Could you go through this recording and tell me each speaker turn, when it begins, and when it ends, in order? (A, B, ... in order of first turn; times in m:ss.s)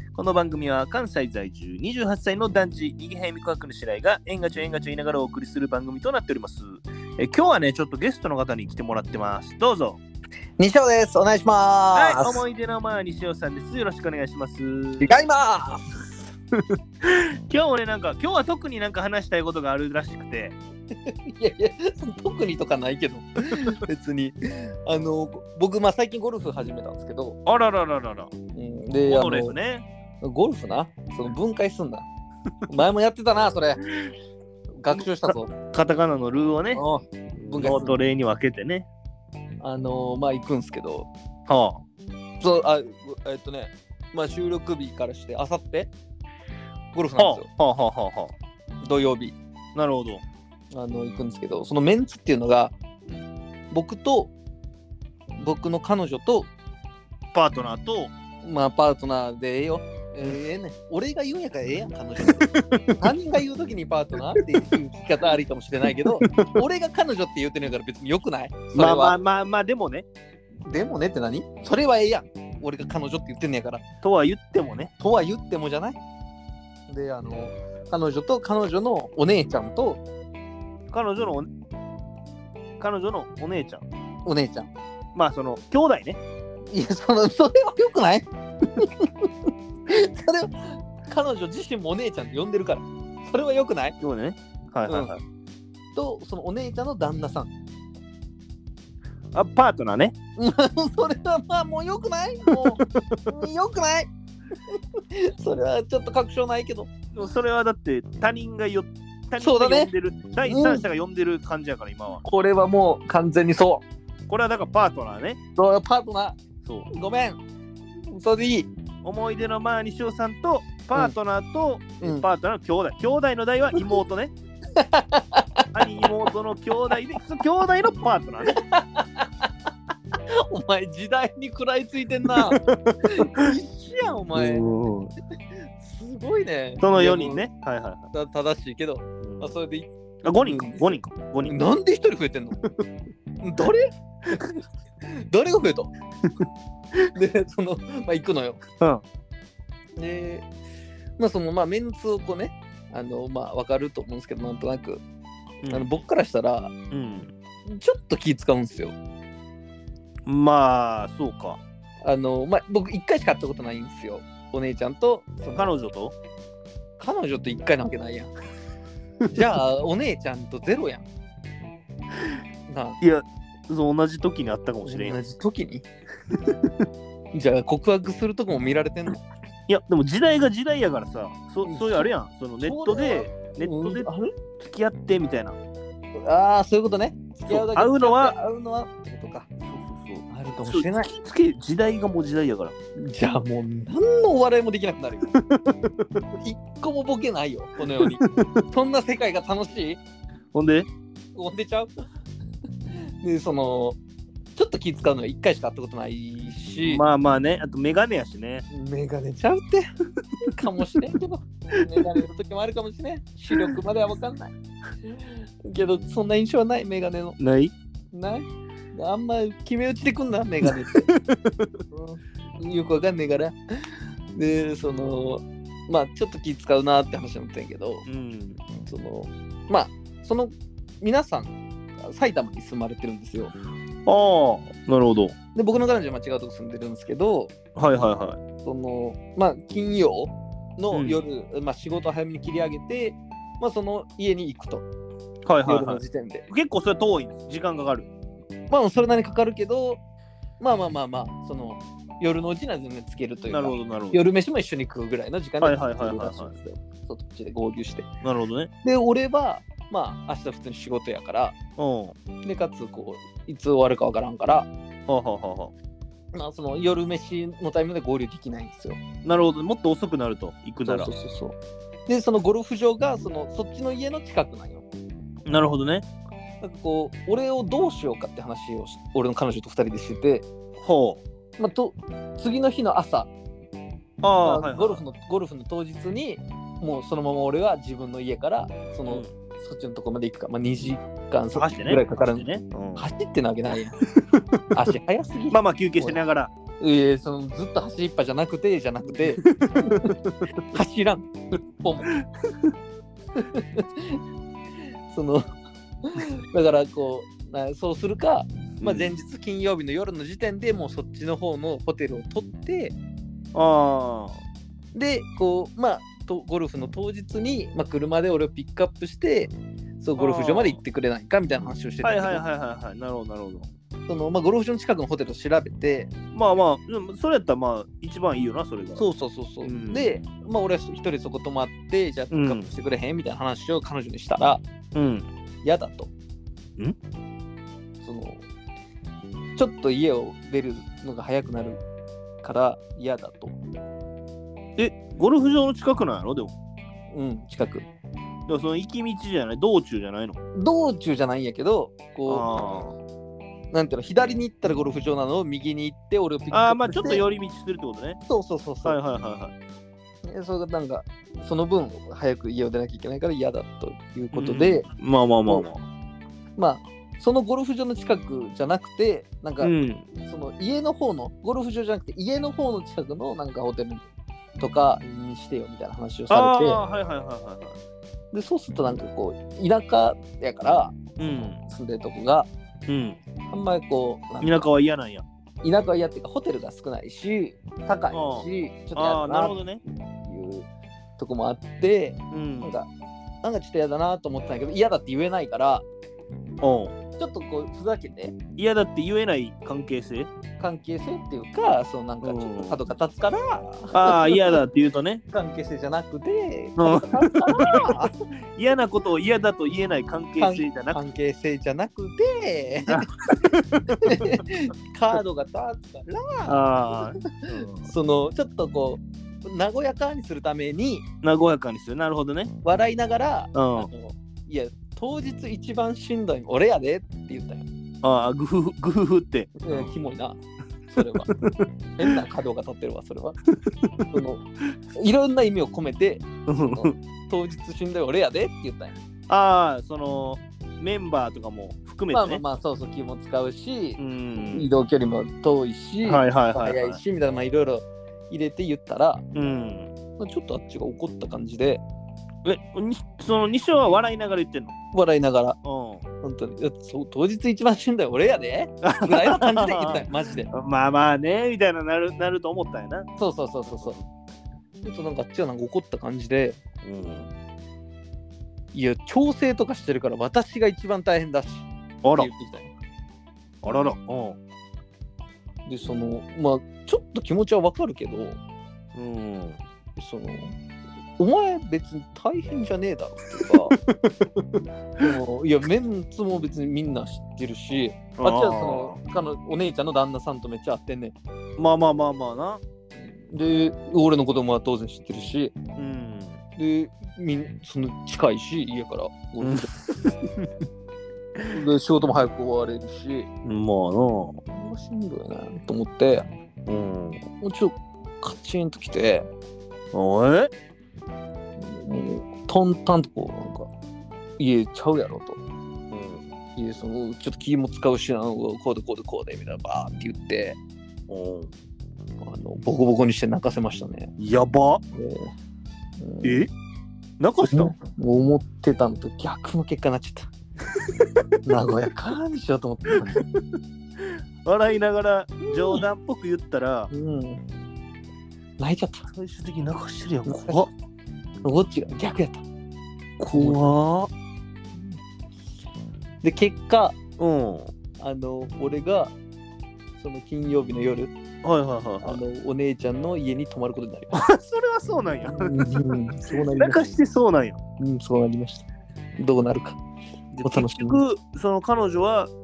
0:00.1-0:10.0 A
0:10.6-0:12.4 B
0:11.9-0:15.1 A
0:15.0-0:15.8 B
0:17.0-0:20.6 A
0:21.0-0:27.4 B
0:27.4-0:28.3 A
0:28.5-0:29.6 B
0:29.0-0:29.8 A
0:30.2-0:32.0 B
0:32.7-0:33.8 B
0:34.8-0:35.5 B
0:35.7-0:38.9 A
0:36.7-0:38.0 B
0:39.6-0:41.1 B
0:41.5-0:41.8 A
0:42.4-0:45.9 B
0:46.9-0:47.5 B
0:47.2-0:48.3 A
0:48.8-0:49.4 B
0:49.7-0:50.2 A
0:50.7-0:52.7 B
0:53.7-0:54.3 B
0:55.4-0:56.5 B
0:57.3-0:58.1 A
0:58.4-1:02.4 B
1:02.2-1:03.1 A
1:03.0-1:09.2 B
1:06.2-1:06.6 A
1:08.7-1:10.1 A
1:10.7-1:13.8 B
1:14.0-1:14.9 A
1:15.0-1:16.0 B
1:16.9-1:20.0 B
1:20.9-1:21.5 A
1:22.8-1:23.8 A
1:24.2-1:24.7 B
1:25.1-1:26.2 A
1:26.7-1:29.3 B
1:29.9-1:34.0 B
1:34.0-1:35.2 A
1:34.9-1:35.1 B
1:35.9-1:37.5 B
1:39.3-1:40.1 A
1:40.4-1:44.1 B
1:42.5-1:43.3 A
1:44.7-1:46.9 B
1:47.1-1:52.2 A
1:49.4-1:49.9 B
1:50.4-1:50.8 B
1:52.2-1:53.8 B
1:54.3-1:55.4 A
1:55.6-1:56.4 B
1:56.6-1:56.9 A
1:56.9-1:57.4 B
1:58.1-1:58.7 B
1:59.0-2:04.3 A
2:04.8-2:05.6 B
2:05.7-2:08.6 A
2:08.5-2:09.5 B
2:10.5-2:14.6 B
2:12.5-2:13.5 A
2:14.3-2:15.1 A
2:15.8-2:17.4 B
2:16.8-2:18.1 A
2:18.1-2:22.6 B
2:19.2-2:19.5 A
2:20.2-2:21.6 A
2:23.4-2:24.5 B
2:25.1-2:25.9 B
2:27.1-2:28.6 B
2:30.0-2:30.5 B
2:31.2-2:35.0 B
2:35.7-2:36.7 B
2:36.9-2:37.3 A
2:37.6-2:39.0 B
2:40.2-2:41.6 A
2:42.0-2:45.7 B
2:45.6-2:46.1 A
2:47.0-2:48.3 B
2:49.3-2:51.1 B
2:52.7-2:53.0 B
2:53.0-2:55.2 A
2:54.8-2:55.8 B
2:56.3-2:56.7 A
2:57.3-2:59.2 B
2:59.7-3:04.1 A
3:01.6-3:04.3 B
3:04.6-3:05.6 A
3:06.2-3:09.5 B
3:07.5-3:08.3 A
3:09.7-3:12.7 A
3:10.3-3:11.1 B
3:13.0-3:15.3 B
3:15.3-3:16.0 A
3:16.4-3:20.0 B
3:18.0-3:18.4 A
3:20.5-3:20.9 A
3:21.3-3:21.9 B
3:23.2-3:24.0 B
3:24.5-3:27.0 B
3:26.8-3:28.6 A
3:28.7-3:29.9 B
3:30.5-3:34.5 B
3:35.1-3:37.4 B
3:37.4-3:37.7 A
3:38.1-3:41.1 B
3:40.6-3:41.7 A
3:41.9-3:48.0 B
3:48.0-3:48.6 A
3:48.8-3:53.5 B
3:54.0-3:55.3 A
3:55.5-3:57.5 B
3:57.8-3:58.4 A
3:58.6-4:04.8 B
4:00.9-4:01.2 A
4:05.4-4:08.1 A
4:05.6-4:06.4 B
4:08.7-4:10.0 B
4:10.6-4:18.1 B
4:13.5-4:14.2 A
4:15.6-4:16.5 A
4:18.2-4:18.7 A
4:18.8-4:21.6 B
4:21.8-4:22.1 A
4:22.4-4:24.7 B
4:25.1-4:25.7 A
4:26.3-4:29.0 B
4:29.2-4:31.1 A
4:30.8-4:34.8 B
4:35.5-4:36.0 A
4:36.6-4:40.5 B
4:40.8-4:41.2 A
4:41.6-4:43.3 B
4:44.2-4:45.0 A
4:44.4-4:54.0 B
4:51.5-4:53.1 A
4:54.7-4:56.2 B
4:55.5-4:56.5 A
4:56.8-5:00.1 B
4:59.4-5:00.5 A
5:00.7-5:02.1 B
5:02.1-5:02.6 A
5:03.4-5:04.2 B
5:05.1-5:05.5 B
5:06.0-5:12.9 B
5:08.8-5:09.1 A
5:13.5-5:14.4 A
5:14.9-5:22.4 B
5:20.2-5:20.8 A
5:22.0-5:23.7 A
5:24.1-5:26.1 B
5:26.3-5:29.0 A
5:29.0-5:34.6 B
5:29.6-5:30.1 A
5:32.3-5:32.7 A
5:34.9-5:35.3 A
5:35.6-5:36.1 B
5:38.0-5:38.4 B
5:39.6-5:41.8 B
5:42.4-5:43.6 B
5:44.8-5:46.5 A
5:47.1-5:47.9 B
5:48.5-5:50.4 A
5:50.5-5:52.8 B
5:52.3-5:52.9 A
5:53.7-5:57.2 B
5:56.5-5:58.2 A
5:58.3-5:59.0 B
5:58.8-5:59.5 A
6:00.2-6:04.8 B
6:04.3-6:05.8 A
6:06.6-6:14.0 B
6:09.6-6:10.1 A
6:14.6-6:16.8 B
6:16.3-6:17.8 A
6:18.3-6:22.5 B
6:21.2-6:21.6 A
6:22.9-6:23.2 A
6:23.5-6:24.6 B
6:24.4-6:25.2 A
6:25.6-6:29.6 B
6:28.1-6:29.8 A
6:30.2-6:32.9 B
6:32.3-6:32.8 A
6:33.4-6:35.8 B
6:36.6-6:36.9 A
6:37.2-6:38.4 B
6:38.6-6:40.3 A
6:40.6-6:44.6 B
6:42.2-6:42.8 A
6:43.9-6:45.2 A
6:45.3-6:48.1 B
6:46.8-6:47.9 A
6:48.6-6:51.0 A
6:50.4-6:53.0 B
6:52.9-6:54.1 A
6:54.0-7:01.0 B
6:56.5-6:57.9 A
7:01.2-7:02.5 A
7:02.6-7:07.7 B
7:03.5-7:03.9 A
7:08.0-7:09.9 A
7:09.6-7:10.4 B
7:10.9-7:11.3 B
7:11.3-7:11.7 A
7:12.0-7:13.4 B
7:13.8-7:14.2 A
7:14.1-7:14.4 B
7:15.0-7:19.0 B
7:16.5-7:16.9 A
7:19.3-7:22.4 A
7:22.1-7:29.2 B
7:24.0-7:24.7 A
7:26.0-7:27.0 A
7:29.3-7:29.9 A
7:30.2-7:31.8 B
7:32.4-7:34.7 A
7:34.9-7:35.6 B
7:35.6-7:36.0 A
7:36.2-7:40.5 B
7:38.8-7:43.1 A
7:43.2-7:44.0 B
7:43.6-7:44.0 A
7:44.8-7:46.6 B
7:46.8-7:47.3 A
7:48.7-7:52.7 B
7:52.0-7:52.3 A
7:53.6-7:54.4 A
7:55.7-7:58.4 B
7:58.9-7:59.6 A
8:00.0-8:00.5 B
8:01.2-8:03.8 B
8:03.8-8:05.1 A
8:05.0-8:11.2 B
8:08.2-8:09.0 A
8:11.6-8:12.6 A
8:13.0-8:15.6 B
8:15.8-8:16.4 A
8:16.6-8:19.8 B
8:19.4-8:20.5 A
8:21.5-8:23.3 B
8:23.4-8:24.4 A
8:24.5-8:26.3 B
8:26.7-8:27.2 A
8:27.4-8:29.3 B
8:29.9-8:30.5 A
8:31.6-8:33.7 B
8:34.4-8:35.4 B
8:35.9-8:36.3 A
8:36.6-8:40.6 B
8:41.1-8:41.5 A
8:42.2-8:44.1 B
8:44.2-8:44.8 A
8:44.9-8:45.3 B
8:46.0-8:46.4 B
8:46.2-8:46.5 A
8:47.2-8:47.7 A
8:47.4-8:50.3 B
8:51.4-8:53.2 B
8:53.0-8:53.4 A
8:54.4-8:56.9 A
8:55.5-8:55.8 B
8:56.9-8:57.4 B
8:58.6-8:59.0 B
8:59.1-9:00.7 A
9:00.2-9:00.7 B
9:01.4-9:02.4 B
9:03.2-9:04.1 A
9:03.3-9:03.8 B
9:06.2-9:07.0 B
9:07.2-9:07.7 A
9:08.0-9:09.1 B
9:10.0-9:11.1 B
9:11.4-9:12.2 A
9:12.0-9:14.2 B
9:14.1-9:17.6 A
9:15.2-9:16.8 B
9:17.8-9:19.8 B
9:20.3-9:22.3 A
9:20.4-9:21.0 B